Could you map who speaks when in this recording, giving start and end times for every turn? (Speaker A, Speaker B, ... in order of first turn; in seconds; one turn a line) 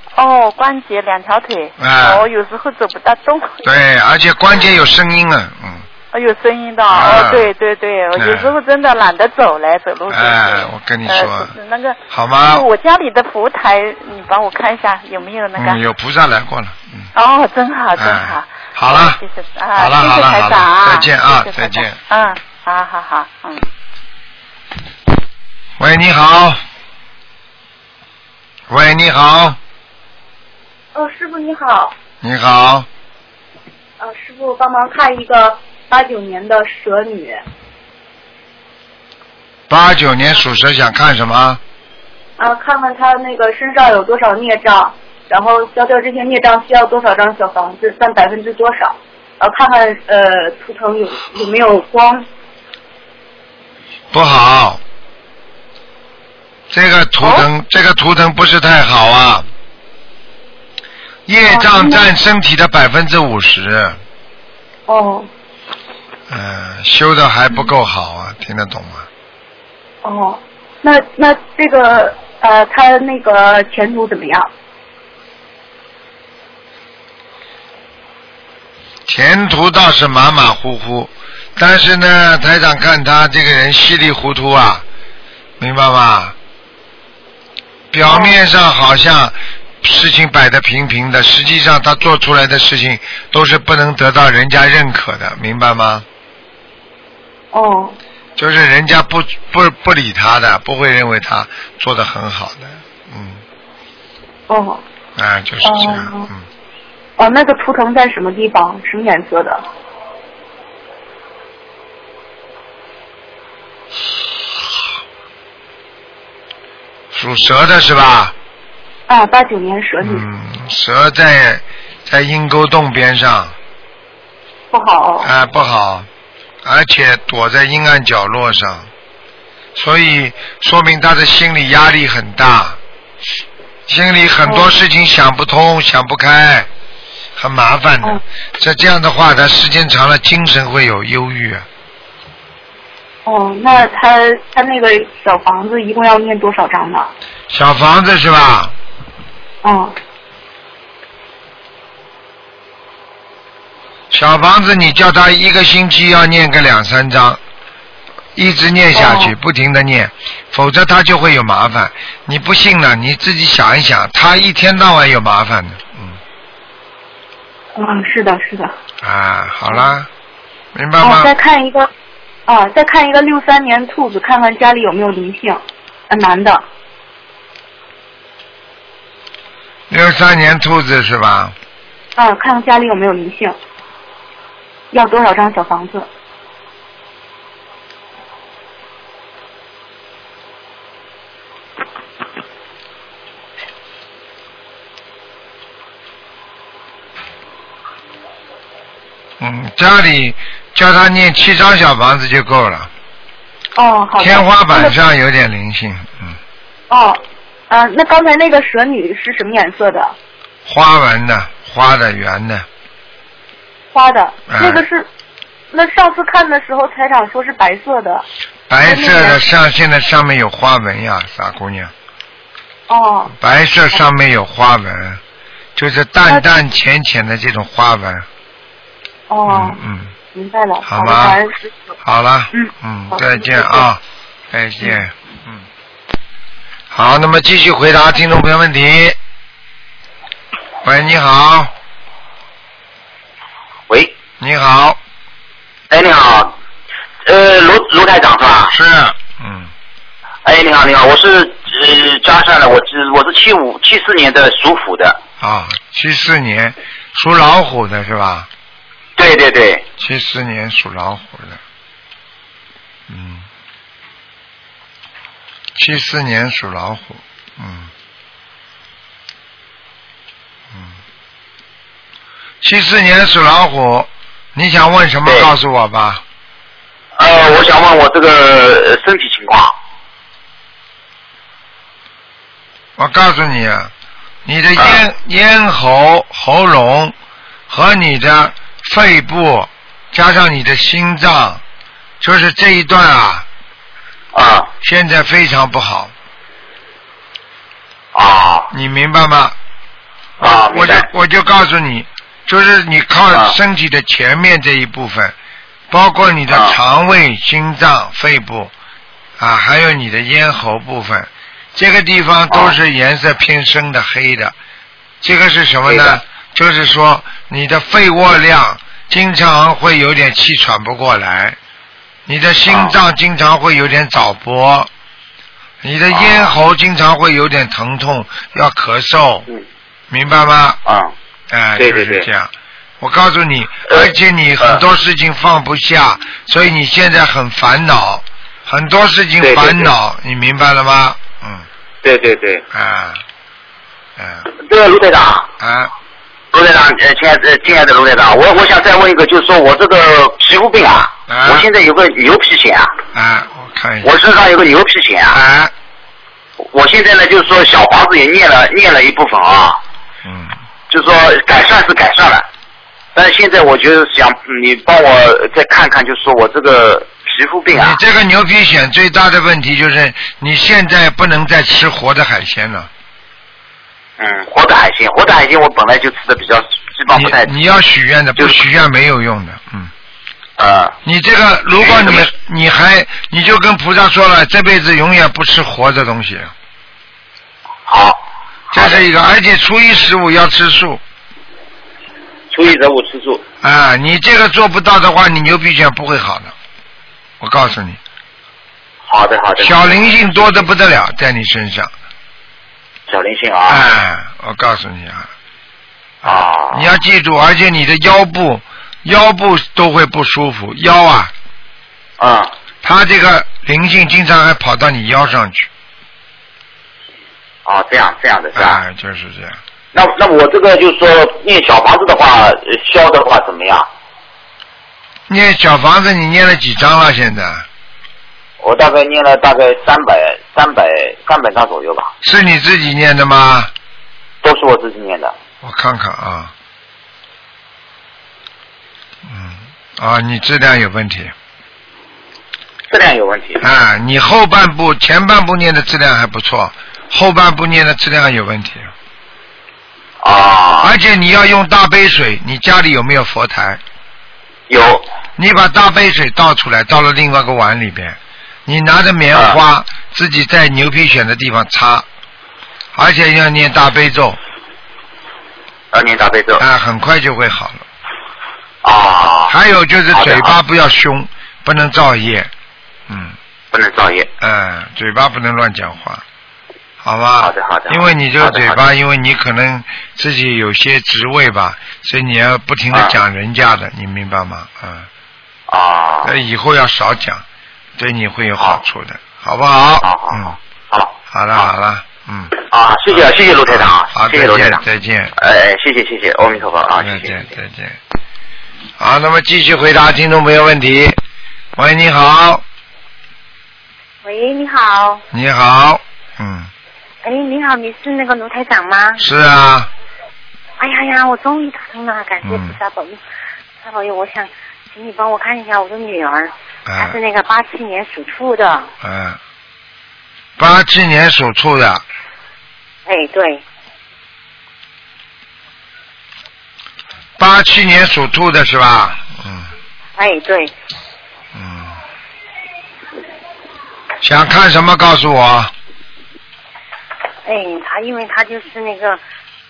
Speaker A: 0.1-3.7
Speaker B: 1.8-2.2
Speaker B: 3.6-5.9
Speaker A: 6.1-15.8
Speaker B: 6.9-7.5
Speaker B: 8.1-8.5
Speaker B: 10.1-11.5
Speaker B: 12.1-12.6
Speaker B: 15.6-17.1
Speaker A: 17.1-23.7
Speaker B: 17.9-19.2
Speaker B: 19.7-22.0
Speaker B: 25.8-26.6
Speaker B: 28.7-29.6
Speaker C: 30.9-31.9
Speaker B: 32.2-32.9
Speaker C: 34.0-37.4
Speaker B: 39.7-41.6
Speaker C: 42.4-52.2
Speaker B: 54.1-54.8
Speaker B: 56.7-59.5
Speaker B: 61.2-64.0
Speaker C: 61.5-62.1
Speaker C: 64.9-65.3
Speaker B: 66.3-69.1
Speaker C: 70.0-74.5
Speaker B: 79.1-84.8
Speaker B: 85.6-86.3
Speaker B: 87.9-96.0
Speaker C: 88.0-88.3
Speaker C: 97.5-98.0
Speaker B: 98.4-103.4
Speaker C: 104.5-104.8
Speaker B: 105.2-106.5
Speaker C: 105.6-106.3
Speaker C: 107.2-109.6
Speaker B: 117.1-118.3
Speaker C: 119.1-120.2
Speaker B: 120.0-123.5
Speaker C: 124.7-125.3
Speaker B: 125.2-126.1
Speaker B: 126.6-128.9
Speaker B: 129.7-132.8
Speaker B: 133.9-136.7
Speaker C: 134.4-134.8
Speaker B: 137.4-141.7
Speaker C: 143.2-147.1
Speaker B: 147.5-148.7
Speaker C: 149.6-149.9
Speaker B: 154.1-157.4
Speaker B: 158.3-166.2
Speaker C: 158.9-159.3
Speaker C: 167.7-168.7
Speaker B: 169.0-170.1
Speaker B: 170.7-171.3
Speaker C: 171.0-171.9
Speaker C: 172.5-176.6
Speaker B: 179.9-181.5
Speaker C: 182.2-183.6
Speaker C: 184.9-186.1
Speaker B: 199.4-202.9
Speaker C: 203.8-204.9
Speaker B: 204.2-206.4
Speaker C: 206.9-210.1
Speaker B: 210.7-212.7
Speaker C: 213.9-215.1
Speaker B: 214.5-214.8
Speaker C: 215.7-218.2
Speaker B: 218.7-221.9
Speaker C: 218.8-219.4
Speaker C: 222.9-223.3
Speaker B: 223.4-225.2
Speaker B: 225.8-228.3
Speaker C: 229.3-229.8
Speaker B: 229.5-230.1
Speaker C: 230.3-231.7
Speaker B: 230.8-231.4
Speaker B: 232.0-234.0
Speaker C: 232.5-233.9
Speaker B: 234.5-235.7
Speaker B: 236.9-239.2
Speaker B: 240.8-241.7
Speaker D: 243.9-244.1
Speaker B: 244.4-245.0
Speaker D: 245.9-246.5
Speaker D: 247.2-248.7
Speaker B: 248.7-249.7
Speaker D: 250.4-255.2
Speaker B: 255.4-258.5
Speaker D: 259.2-259.8
Speaker B: 260.0-261.6
Speaker B: 263.1-263.5
Speaker B: 265.8-267.9
Speaker B: 272.6-276.2
Speaker D: 275.2-275.5
Speaker D: 277.2-279.7
Speaker B: 283.0-283.9
Speaker B: 284.4-287.1
Speaker D: 284.8-285.0
Speaker B: 287.7-291.6
Speaker B: 292.2-293.4
Speaker D: 294.3-294.7
Speaker B: 294.8-296.1
Speaker D: 298.1-298.7
Speaker B: 298.7-299.6
Speaker B: 300.4-305.3
Speaker D: 300.4-301.1
Speaker B: 305.9-308.7
Speaker D: 306.5-306.8
Speaker B: 309.4-314.5
Speaker D: 312.5-312.8
Speaker B: 315.2-321.6
Speaker D: 315.9-316.2
Speaker B: 322.3-324.9
Speaker D: 322.7-322.9
Speaker B: 325.8-329.5
Speaker D: 326.1-326.5
Speaker B: 330.1-330.8
Speaker D: 330.8-331.1
Speaker B: 331.5-341.7
Speaker D: 331.8-332.3
Speaker D: 333.9-334.8
Speaker D: 339.4-339.9
Speaker D: 342.0-342.6
Speaker B: 342.7-343.2
Speaker B: 344.2-344.5
Speaker D: 344.6-345.5
Speaker B: 345.6-345.9
Speaker D: 346.5-352.9
Speaker B: 351.3-351.7
Speaker B: 353.1-354.1
Speaker D: 354.0-355.4
Speaker B: 355.3-355.7
Speaker D: 356.7-359.8
Speaker B: 360.2-360.6
Speaker D: 360.9-362.5
Speaker D: 363.1-368.0
Speaker B: 367.7-372.9
Speaker D: 374.2-377.6
Speaker B: 377.1-379.9
Speaker D: 378.4-378.6
Speaker D: 380.6-380.9
Speaker B: 381.0-386.5
Speaker D: 381.7-382.3
Speaker D: 387.9-389.1
Speaker B: 388.7-391.0
Speaker D: 392.5-393.4
Speaker B: 393.6-396.5
Speaker B: 397.4-398.0
Speaker D: 399.1-400.6
Speaker B: 399.6-401.9
Speaker D: 403.1-403.9
Speaker B: 403.7-405.3
Speaker B: 406.2-411.3
Speaker D: 406.2-406.9
Speaker D: 412.2-412.5
Speaker B: 412.8-415.7
Speaker D: 417.6-418.8
Speaker B: 418.5-419.6
Speaker D: 419.9-423.9
Speaker B: 425.3-427.6
Speaker D: 428.6-432.1
Speaker B: 432.2-433.7
Speaker D: 434.4-435.3
Speaker B: 435.6-436.5
Speaker B: 439.2-441.3
Speaker D: 442.9-443.6
Speaker B: 443.6-448.9
Speaker D: 450.2-450.9
Speaker B: 450.8-453.8
Speaker D: 454.7-455.1
Speaker B: 455.4-462.1
Speaker D: 459.3-459.6
Speaker B: 462.9-464.4
Speaker D: 465.9-466.6
Speaker B: 466.6-467.9
Speaker D: 468.8-469.5
Speaker B: 469.5-472.5
Speaker D: 470.1-470.5
Speaker B: 473.1-473.4
Speaker D: 473.7-474.3
Speaker B: 474.4-476.2
Speaker B: 477.0-485.1
Speaker D: 477.4-478.8
Speaker D: 485.7-486.4
Speaker B: 486.2-487.4
Speaker B: 488.0-490.6
Speaker D: 490.0-491.7
Speaker B: 491.3-492.6
Speaker D: 492.6-494.8
Speaker B: 493.1-495.3
Speaker D: 495.4-497.4
Speaker B: 497.0-498.0
Speaker B: 499.0-501.2
Speaker B: 501.8-502.6
Speaker E: 504.2-505.2
Speaker B: 505.3-506.7
Speaker E: 507.2-509.2
Speaker B: 509.2-509.9
Speaker E: 510.8-513.2
Speaker B: 512.4-512.8
Speaker E: 513.8-518.9
Speaker B: 516.9-517.2
Speaker B: 519.0-519.4
Speaker B: 520.6-522.0
Speaker E: 523.0-523.6
Speaker B: 527.4-529.7
Speaker E: 530.2-530.7
Speaker B: 531.5-532.0
Speaker B: 534.2-535.7
Speaker E: 537.4-539.2